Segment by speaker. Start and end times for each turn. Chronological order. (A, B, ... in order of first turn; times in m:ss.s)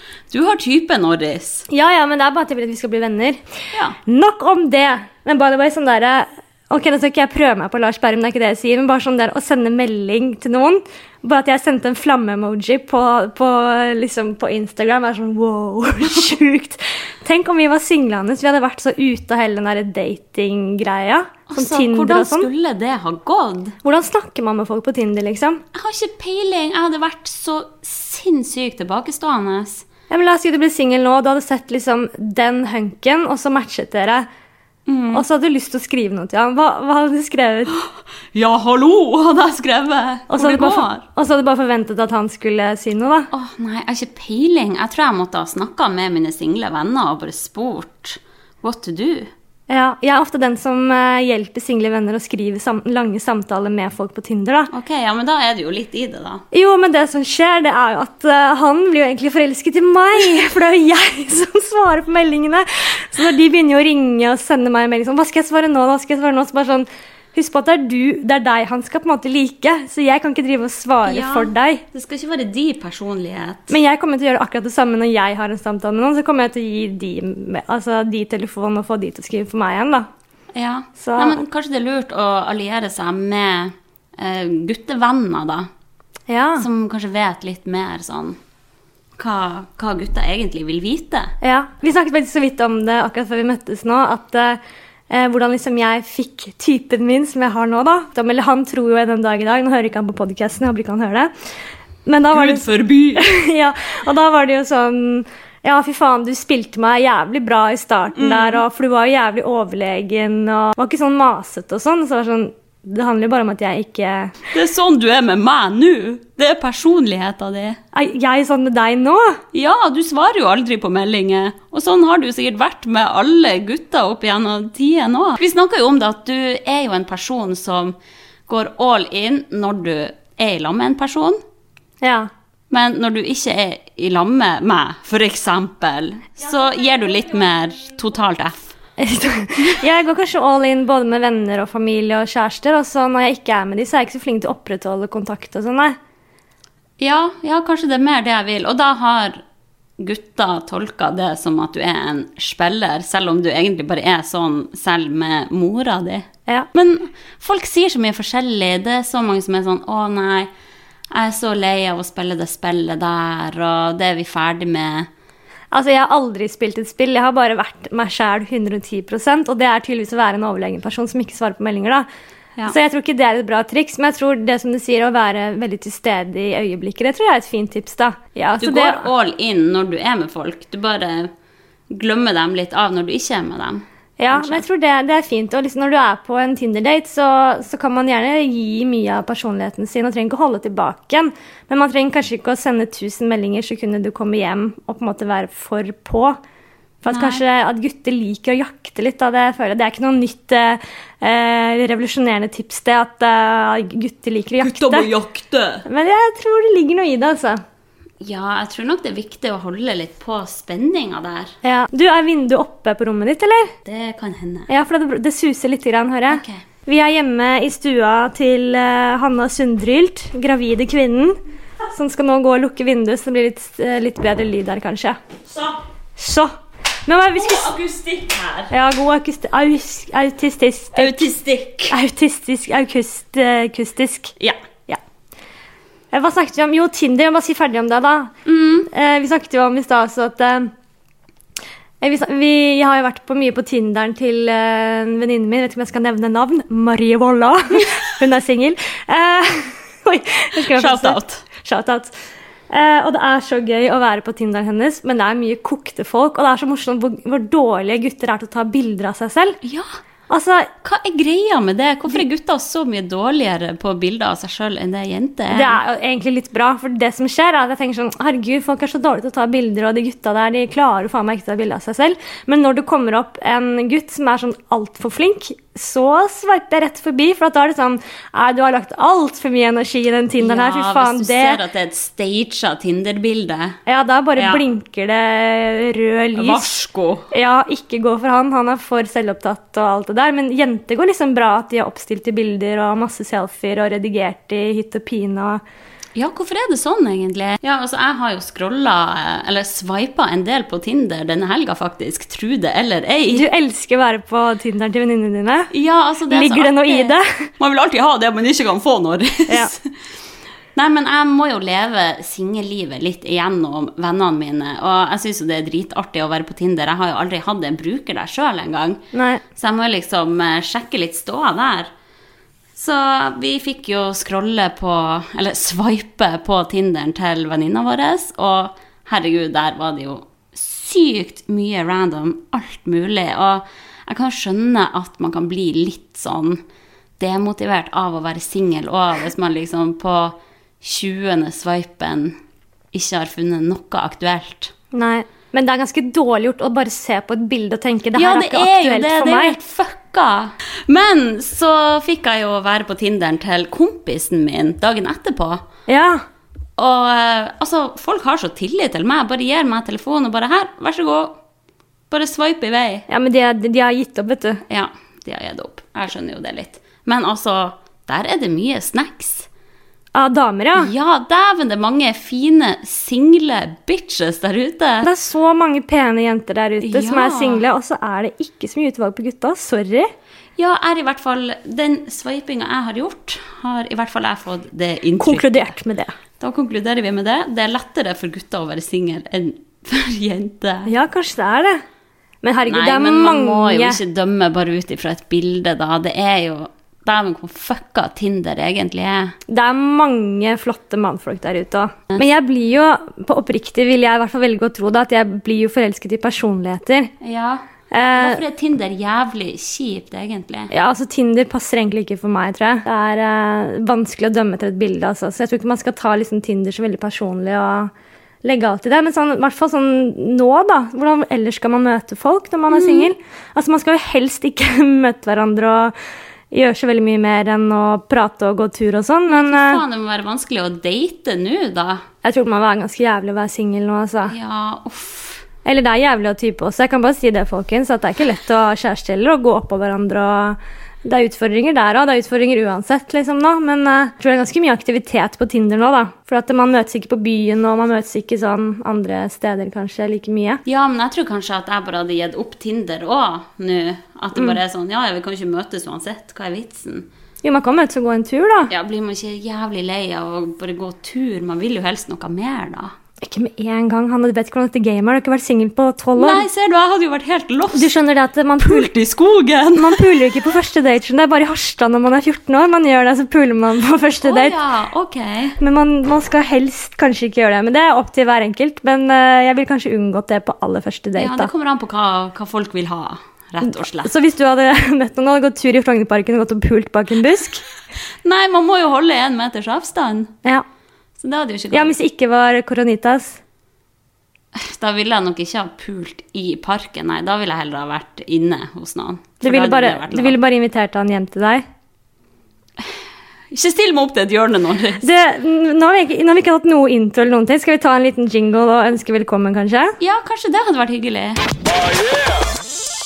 0:00.3-0:01.7 A
0:01.7-0:03.4 B
0:04.1-0:22.5 B
0:21.5-0:23.8 A
0:23.8-0:25.6 B
0:25.7-0:29.8 A
0:30.1-0:34.3 B
0:34.9-0:35.2 A
0:35.1-0:37.8 B
0:37.7-0:41.0 A
0:40.3-0:43.3 B
0:43.3-0:49.3 A
0:49.7-0:54.7 B
0:54.7-0:56.4 A
0:56.5-1:11.8 B
1:11.1-1:13.8 A
1:13.7-1:20.1 B
1:20.5-1:25.7 A
1:21.0-1:21.4 B
1:26.3-1:26.7 B
1:26.6-1:28.4 A
1:29.2-1:31.3 A
1:31.4-1:34.6 B
1:35.1-1:41.3 B
1:42.1-1:54.4 B
1:42.3-1:43.3 A
1:48.2-1:48.6 A
1:54.5-1:57.8 A
1:57.9-1:59.4 B
1:59.5-2:08.0 A
2:08.5-2:11.4 A
2:12.0-2:12.3 B
2:12.7-2:18.7 A
2:19.0-2:26.0 B
2:27.0-2:29.4 A
2:30.0-2:40.5 A
2:41.1-2:45.1 A
2:45.7-2:52.1 B
2:52.7-2:59.1 B
2:58.6-3:01.3 A
3:01.9-3:04.6 A
3:04.2-3:16.4 B
3:17.0-3:25.1 B
3:17.1-3:17.4 A
3:24.6-3:25.8 A
3:25.8-3:27.6 B
3:28.2-3:31.6 A
3:31.6-3:33.7 B
3:33.8-3:34.7 A
3:34.7-3:41.4 B
3:36.3-3:36.6 A
3:41.9-3:45.2 B
3:45.5-3:45.8 A
3:46.2-3:46.5 B
3:47.1-3:47.7 B
3:47.3-3:48.7 A
3:48.7-3:51.3 B
3:51.0-3:52.0 A
3:51.9-3:54.4 B
3:56.1-3:58.3 B
3:58.4-3:58.9 A
3:58.9-4:00.7 B
4:02.0-4:12.2 B
4:10.6-4:11.4 A
4:12.7-4:19.6 B
4:19.6-4:19.9 A
4:20.3-4:20.7 B
4:20.8-4:25.8 A
4:25.5-4:41.6 B
4:40.4-4:43.8 A
4:43.9-4:46.7 B
4:44.4-4:44.6 A
4:46.4-4:47.3 A
4:47.3-4:55.6 B
4:56.2-5:03.5 A
5:03.3-5:05.7 B
5:05.7-5:10.0 A
5:06.3-5:07.5 B
5:10.8-5:19.0 A
5:19.1-5:19.4 B
5:19.6-5:21.9 A
5:22.7-5:36.6 A
5:37.2-5:42.4 A
5:42.9-5:44.7 A
5:44.9-5:49.6 B
5:48.2-5:55.6 A
5:55.9-5:56.2 B
5:56.8-6:01.4 A
6:02.1-6:03.1 A
6:03.1-6:04.6 B
6:04.7-6:09.5 A
6:10.2-6:10.9 B
6:10.8-6:15.1 A
6:15.0-6:20.1 B
6:16.8-6:17.6 A
6:20.6-6:25.8 A
6:25.2-6:26.2 B
6:26.4-6:30.9 A
6:30.9-6:31.8 B
6:32.4-6:34.0 B
6:32.7-6:39.4 A
6:39.5-6:47.1 B
6:47.2-6:50.7 A
6:47.9-6:48.4 B
6:50.7-6:57.9 B
6:58.4-7:05.9 B
7:02.7-7:03.1 A
7:06.5-7:09.8 B
7:09.3-7:12.0 A
7:12.2-7:14.4 B
7:14.3-7:15.4 A
7:15.6-7:30.6 B
7:30.6-7:37.1 A
7:34.3-7:34.6 B
7:37.4-7:38.7 B
7:38.7-7:43.0 A
7:43.2-7:46.4 B
7:46.2-7:47.9 A
7:47.7-7:48.9 B
7:48.6-7:50.4 A
7:49.8-7:54.6 B
7:54.2-7:55.6 A
7:55.6-8:01.5 B
8:01.2-8:04.1 A
8:03.6-8:07.6 B
8:08.2-8:10.3 A
8:11.2-8:11.9 A
8:11.7-8:13.4 B
8:14.5-8:20.4 A
8:19.4-8:21.6 B
8:23.5-8:25.1 A
8:25.0-8:30.0 B
8:30.0-8:31.4 A